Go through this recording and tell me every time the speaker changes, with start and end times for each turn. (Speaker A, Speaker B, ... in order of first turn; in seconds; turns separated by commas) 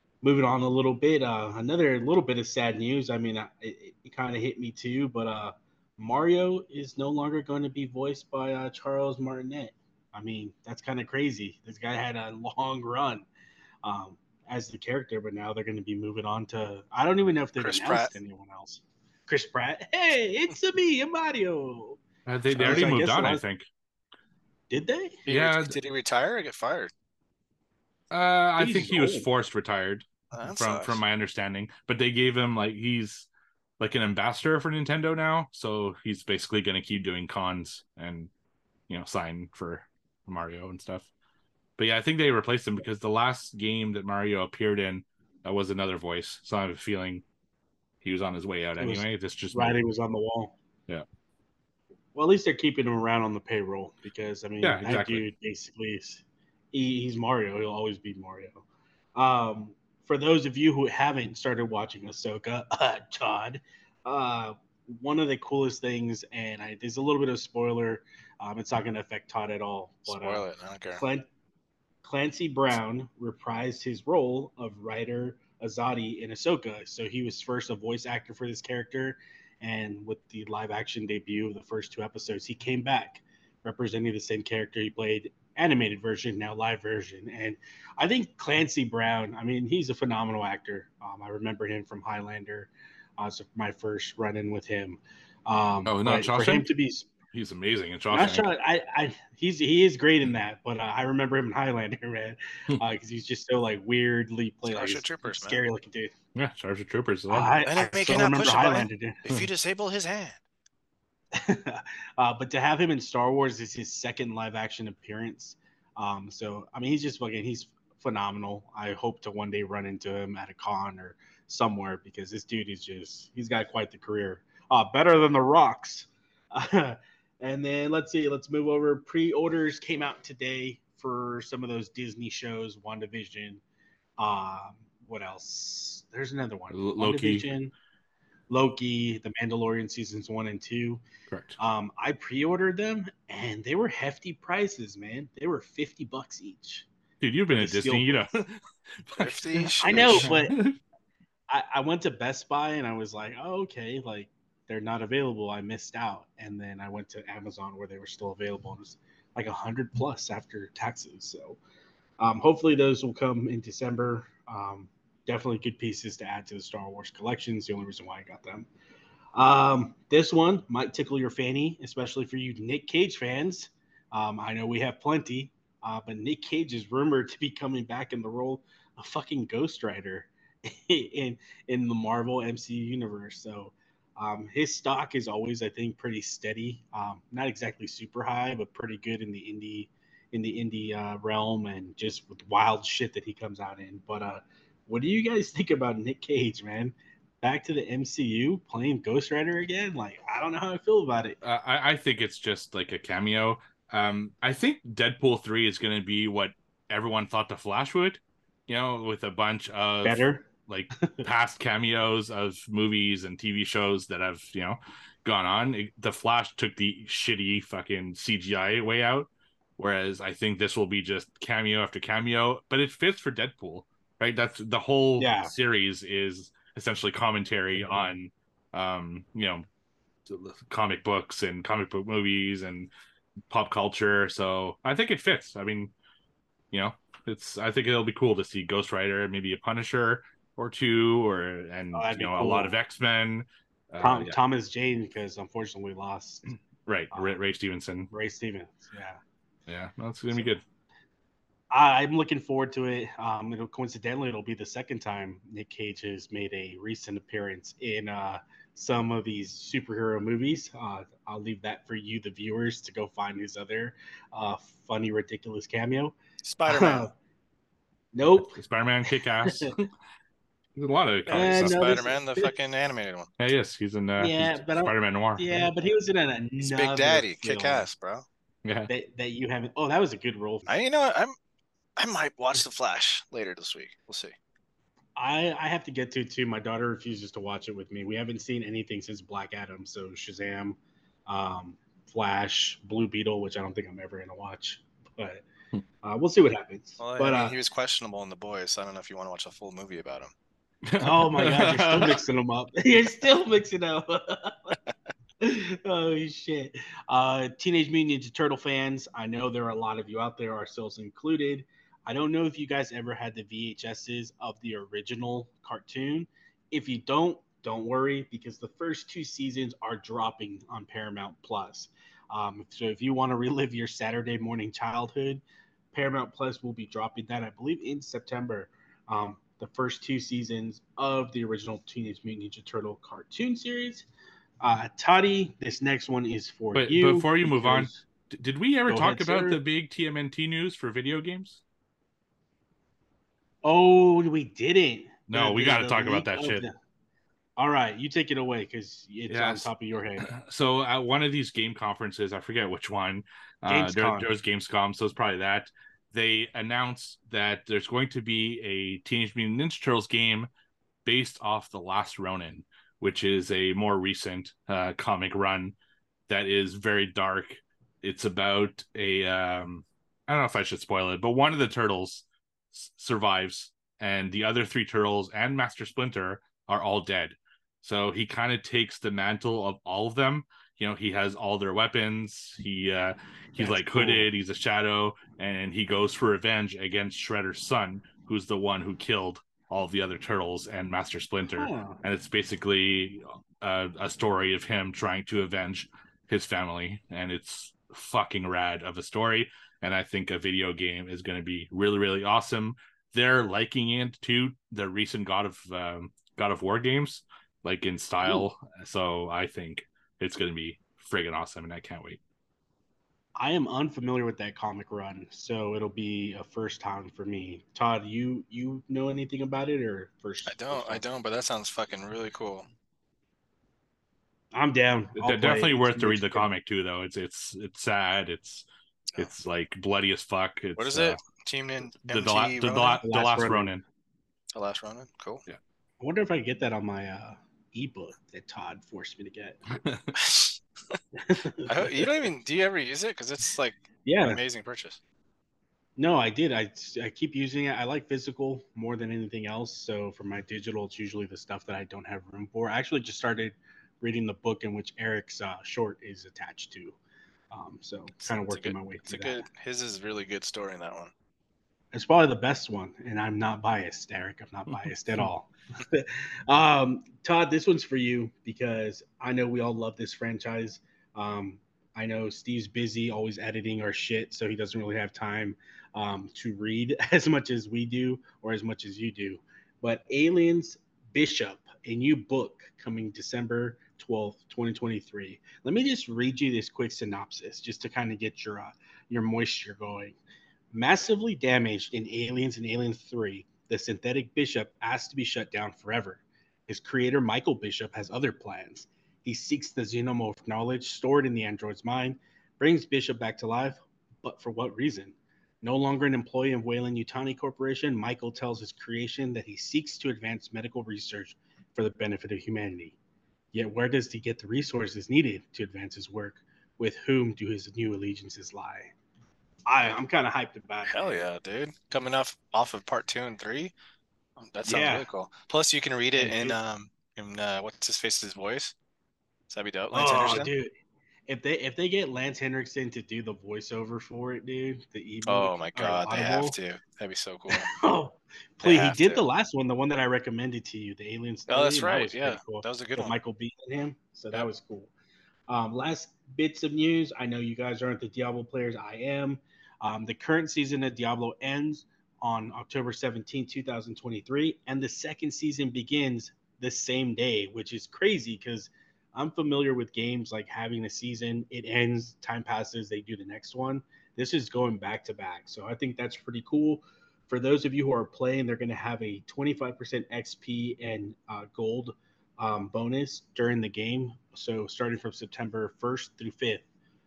Speaker A: 0.2-13.2, Speaker A: 13.8-22.0, Speaker B: 17.6-18.1, Speaker C: 22.2-23.6, Speaker B: 22.5-22.8, Speaker A: 22.6-23.4, Speaker A: 24.7-25.2, Speaker B: 25.3-26.9, Speaker C: 25.3-25.7, Speaker C: 28.1-33.3, Speaker A: 28.6-29.3, Speaker B: 30.3-31.0, Speaker C: 33.8-38.3, Speaker C: 38.9-41.1, Speaker C: 41.8-47.2, Speaker C: 48.0-49.8, Speaker A: 48.8-50.5, Speaker A: 52.1-58.6, Speaker C: 54.6-55.2, Speaker A: 59.1-70.4, Speaker B: 70.0-71.0, Speaker A: 71.0-71.3, Speaker A: 72.0-97.1, Speaker C: 95.8-96.7, Speaker C: 97.3-98.5, Speaker A: 98.1-106.1, Speaker B: 104.7-105.6, Speaker C: 106.3-107.5, Speaker A: 107.3-109.2, Speaker B: 107.6-110.4, Speaker A: 111.3-133.6, Speaker A: 134.2-137.7, Speaker C: 136.7-137.4, Speaker A: 138.5-141.0, Speaker C: 141.3-141.6, Speaker A: 141.6-146.9, Speaker C: 147.2-150.8, Speaker A: 147.6-148.2, Speaker B: 149.2-150.3, Speaker A: 149.8-150.5, Speaker A: 151.5-161.6, Speaker A: 162.2-168.7, Speaker A: 169.3-201.3, Speaker C: 201.4-229.6, Speaker A: 210.0-211.2, Speaker A: 225.2-225.5, Speaker C: 230.3-232.9, Speaker C: 233.5-235.9, Speaker C: 236.7-244.3, Speaker A: 241.9-242.7, Speaker A: 244.0-246.5, Speaker C: 246.5-248.1, Speaker A: 248.1-249.2, Speaker C: 249.7-250.6, Speaker A: 251.7-266.1, Speaker B: 266.4-267.1, Speaker A: 266.7-267.1, Speaker A: 268.1-268.6, Speaker C: 268.4-269.9, Speaker A: 269.1-269.7, Speaker C: 270.8-271.8, Speaker B: 271.3-273.3, Speaker A: 271.3-272.5, Speaker C: 273.4-275.7, Speaker A: 274.2-277.9, Speaker B: 276.6-278.2, Speaker C: 278.6-278.9, Speaker A: 278.9-280.8, Speaker B: 280.7-281.4, Speaker B: 282.0-284.3, Speaker A: 285.1-295.4, Speaker A: 296.0-297.6, Speaker B: 297.0-300.3, Speaker C: 300.9-302.2, Speaker A: 301.0-304.8, Speaker A: 305.4-334.1, Speaker A: 334.6-338.0, Speaker C: 336.7-341.6, Speaker A: 338.9-339.6, Speaker A: 343.6-346.7, Speaker C: 345.3-346.6, Speaker A: 347.6-350.3, Speaker C: 349.3-349.7, Speaker C: 350.2-360.5, Speaker A: 353.7-354.3, Speaker C: 361.0-365.7, Speaker C: 366.3-412.2, Speaker A: 383.6-384.3, Speaker A: 391.6-392.0, Speaker A: 413.4-421.0, Speaker B: 420.4-422.7, Speaker A: 424.5-426.4, Speaker C: 425.2-428.6, Speaker C: 429.1-431.2, Speaker B: 430.8-433.0, Speaker C: 432.1-433.8, Speaker A: 433.0-433.7, Speaker B: 434.5-435.4, Speaker A: 436.0-439.6, Speaker C: 439.8-440.2, Speaker B: 440.1-440.6, Speaker A: 441.1-442.1, Speaker B: 441.7-445.0, Speaker A: 444.1-444.4, Speaker A: 446.0-457.0, Speaker A: 457.5-459.4, Speaker B: 458.2-461.1, Speaker A: 461.9-490.1, Speaker A: 490.7-513.0, Speaker A: 513.5-518.9, Speaker A: 519.7-521.2, Speaker B: 520.9-523.7, Speaker B: 524.4-528.7, Speaker A: 524.6-525.1, Speaker A: 526.2-526.6, Speaker B: 529.5-530.5, Speaker A: 529.9-530.7, Speaker A: 531.3-536.5, Speaker B: 535.2-537.7, Speaker A: 537.5-544.9, Speaker B: 538.6-539.2, Speaker B: 541.5-543.1, Speaker A: 545.5-576.6